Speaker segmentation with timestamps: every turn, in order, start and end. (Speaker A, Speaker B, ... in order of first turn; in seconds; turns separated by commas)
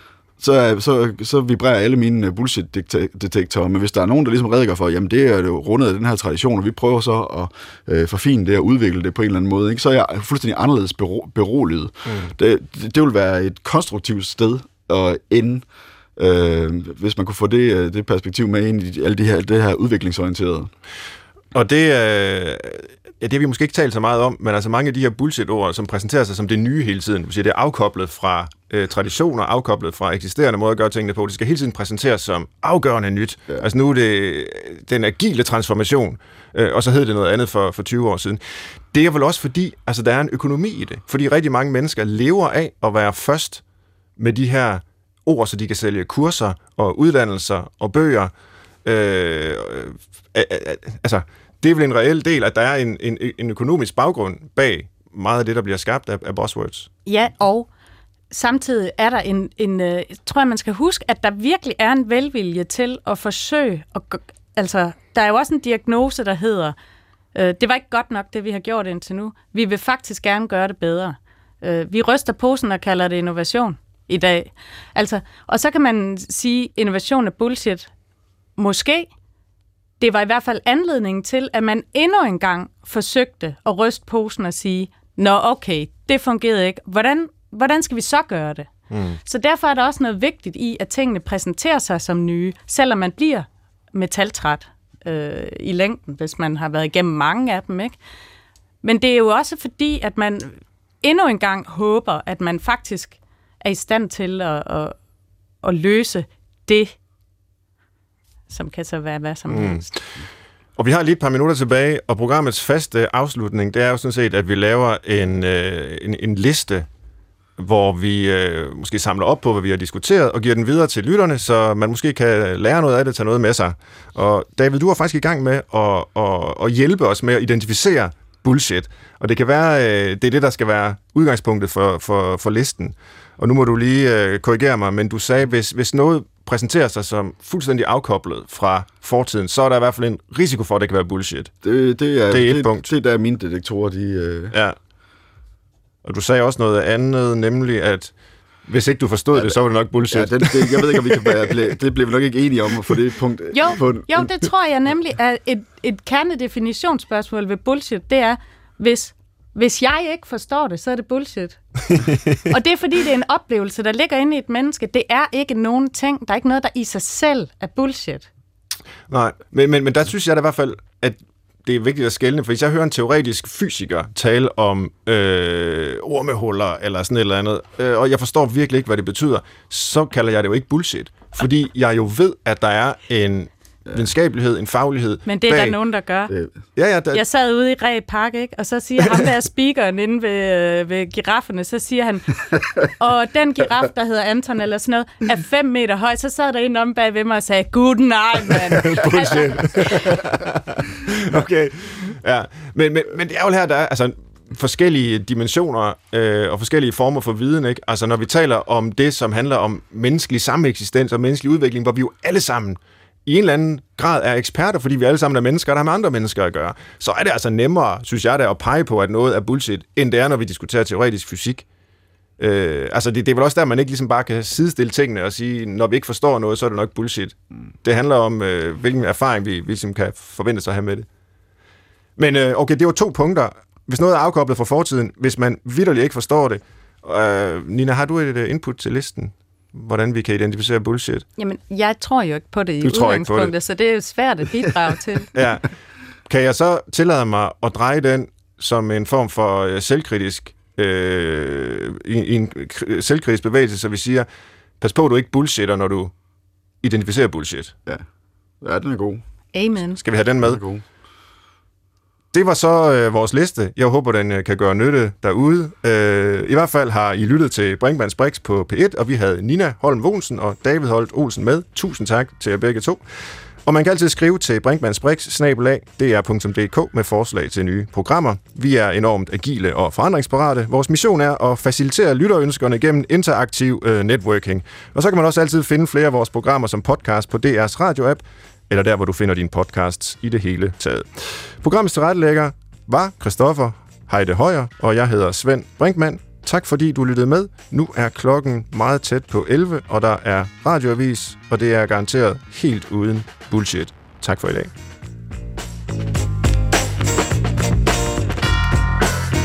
Speaker A: 0.4-15.6, Speaker B: 12.1-12.3, Speaker A: 16.1-20.7, Speaker B: 21.5-38.4, Speaker B: 38.9-43.6, Speaker B: 44.2-48.3, Speaker B: 48.8-56.9, Speaker C: 57.0-57.7, Speaker C: 58.3-66.7, Speaker C: 67.3-77.9, Speaker C: 78.6-79.1, Speaker C: 80.0-88.7, Speaker B: 88.9-89.2, Speaker C: 89.2-98.0, Speaker C: 98.8-105.0, Speaker C: 105.6-107.0, Speaker C: 108.5-109.9, Speaker B: 109.5-109.8, Speaker B: 110.8-116.9, Speaker B: 117.6-141.5, Speaker A: 141.6-144.5, Speaker B: 142.3-142.9, Speaker B: 146.0-148.1, Speaker B: 148.7-151.6, Speaker A: 150.1-154.3, Speaker C: 153.5-161.6, Speaker B: 161.9-162.4, Speaker C: 162.5-168.3, Speaker B: 169.1-185.8, Speaker C: 185.2-186.3, Speaker B: 186.8-187.2, Speaker C: 187.1-200.0, Speaker B: 198.5-221.6, Speaker B: 222.4-231.1, Speaker B: 232.2-241.2, Speaker C: 241.4-245.3, Speaker B: 242.8-243.5, Speaker B: 245.3-245.7, Speaker B: 246.3-254.3, Speaker B: 254.8-256.1, Speaker B: 256.8-257.7, Speaker A: 258.6-259.2, Speaker C: 259.5-260.0, Speaker B: 260.0-260.6, Speaker A: 260.4-260.8, Speaker B: 262.3-273.0, Speaker B: 273.6-304.7